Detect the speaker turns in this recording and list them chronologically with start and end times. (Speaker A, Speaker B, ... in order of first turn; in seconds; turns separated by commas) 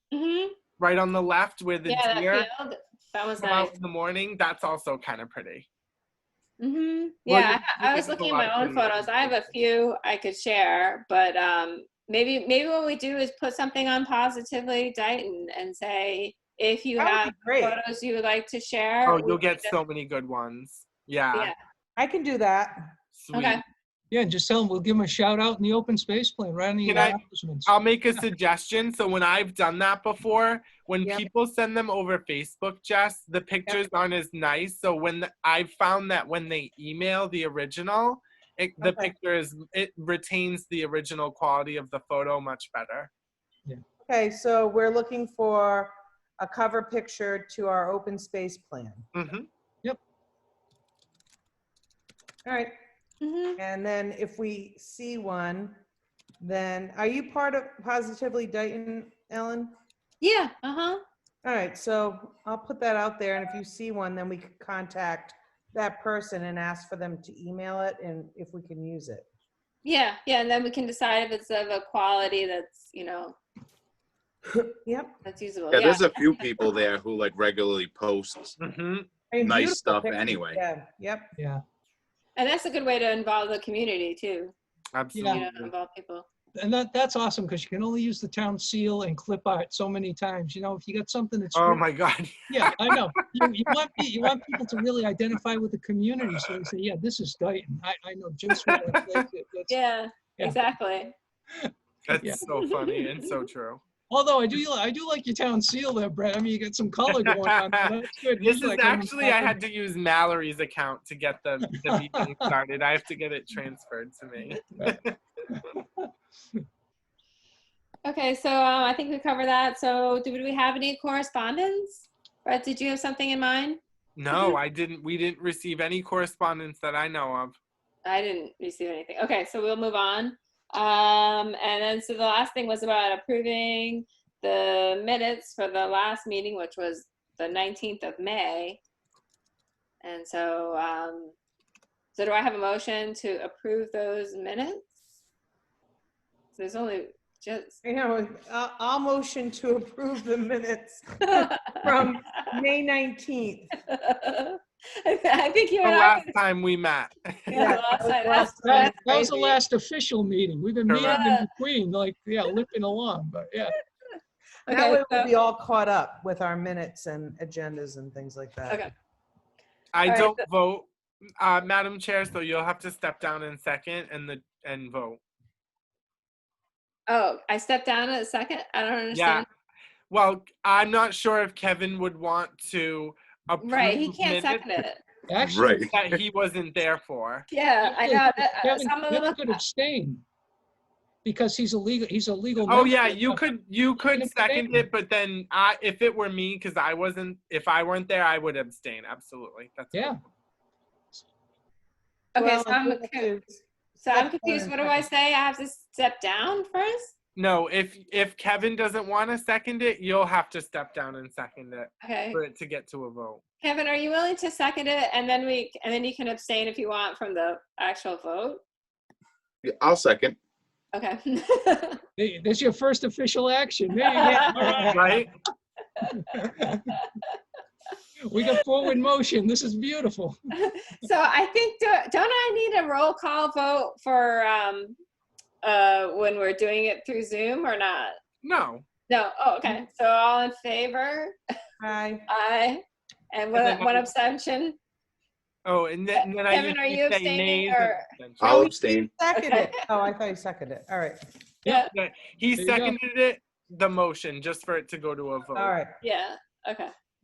Speaker A: 0.1-0.6, Speaker B: 0.8-2.5, Speaker A: 1.9-3.7, Speaker B: 3.4-5.7, Speaker A: 6.6-19.8, Speaker B: 7.3-9.4, Speaker C: 17.0-17.8, Speaker B: 19.1-21.5, Speaker C: 22.0-22.8, Speaker B: 23.1-23.6, Speaker A: 23.3-23.6, Speaker D: 24.1-28.2, Speaker B: 26.9-43.1, Speaker C: 31.0-31.3, Speaker C: 38.8-39.1, Speaker C: 44.1-49.1, Speaker B: 49.1-49.5, Speaker C: 52.5-52.7, Speaker A: 53.2-53.6, Speaker C: 53.6-55.8, Speaker C: 56.4-59.7, Speaker A: 60.2-61.0, Speaker C: 61.4-69.3, Speaker A: 69.8-73.4, Speaker C: 74.5-75.2, Speaker A: 75.2-76.7, Speaker E: 75.7-78.6, Speaker B: 78.6-79.1, Speaker C: 79.3-81.3, Speaker E: 79.4-80.6, Speaker A: 82.4-84.5, Speaker B: 84.9-85.7, Speaker D: 85.1-85.4, Speaker A: 85.2-86.3, Speaker D: 86.6-91.8, Speaker B: 91.5-93.0, Speaker D: 92.5-99.8, Speaker B: 98.5-99.2, Speaker A: 99.7-101.1, Speaker D: 101.5-102.4, Speaker B: 102.1-103.8, Speaker A: 102.5-103.0, Speaker D: 104.1-109.6, Speaker B: 107.2-107.7, Speaker B: 108.3-115.6, Speaker D: 111.7-112.2, Speaker D: 115.5-116.6, Speaker A: 118.0-123.8, Speaker B: 124.2-127.6, Speaker A: 124.3-124.6, Speaker A: 128.1-138.8, Speaker A: 140.0-141.3, Speaker A: 142.2-144.9, Speaker A: 146.6-147.8, Speaker C: 147.8-153.7, Speaker A: 151.3-151.8, Speaker A: 153.9-156.3, Speaker B: 155.8-157.8, Speaker A: 157.5-159.5, Speaker C: 157.5-159.5, Speaker D: 158.6-163.8, Speaker B: 160.9-161.2, Speaker A: 161.0-161.5, Speaker A: 164.7-165.3, Speaker C: 164.7-168.8, Speaker B: 169.9-170.9, Speaker A: 170.0-170.4, Speaker B: 171.4-175.2, Speaker A: 177.1-179.4, Speaker B: 179.1-179.4, Speaker B: 180.1-184.7, Speaker A: 183.6-185.0, Speaker D: 185.3-185.8, Speaker E: 185.4-186.2, Speaker B: 185.9-187.5, Speaker A: 187.5-189.6, Speaker D: 187.8-190.2, Speaker D: 191.2-193.5, Speaker B: 192.7-200.2, Speaker D: 194.1-194.8, Speaker A: 202.3-203.3, Speaker C: 202.3-205.0, Speaker A: 204.0-207.1, Speaker B: 207.4-213.4, Speaker A: 212.0-212.4, Speaker A: 213.6-218.6, Speaker E: 219.6-220.4, Speaker A: 220.9-222.0, Speaker D: 222.2-224.9, Speaker A: 224.0-224.8, Speaker C: 224.2-225.1, Speaker B: 224.7-225.3, Speaker D: 226.3-226.9, Speaker D: 228.2-230.4, Speaker A: 230.6-235.0, Speaker A: 235.6-238.2, Speaker B: 238.4-238.8, Speaker A: 239.1-241.4, Speaker C: 241.8-242.3, Speaker A: 242.3-244.8, Speaker B: 243.5-244.1, Speaker B: 245.7-248.5, Speaker A: 246.2-248.1, Speaker C: 248.4-251.2, Speaker E: 248.4-249.1, Speaker A: 249.3-249.9, Speaker A: 251.7-251.9, Speaker B: 251.9-255.8, Speaker D: 252.6-253.0, Speaker C: 255.6-256.0, Speaker A: 256.0-256.9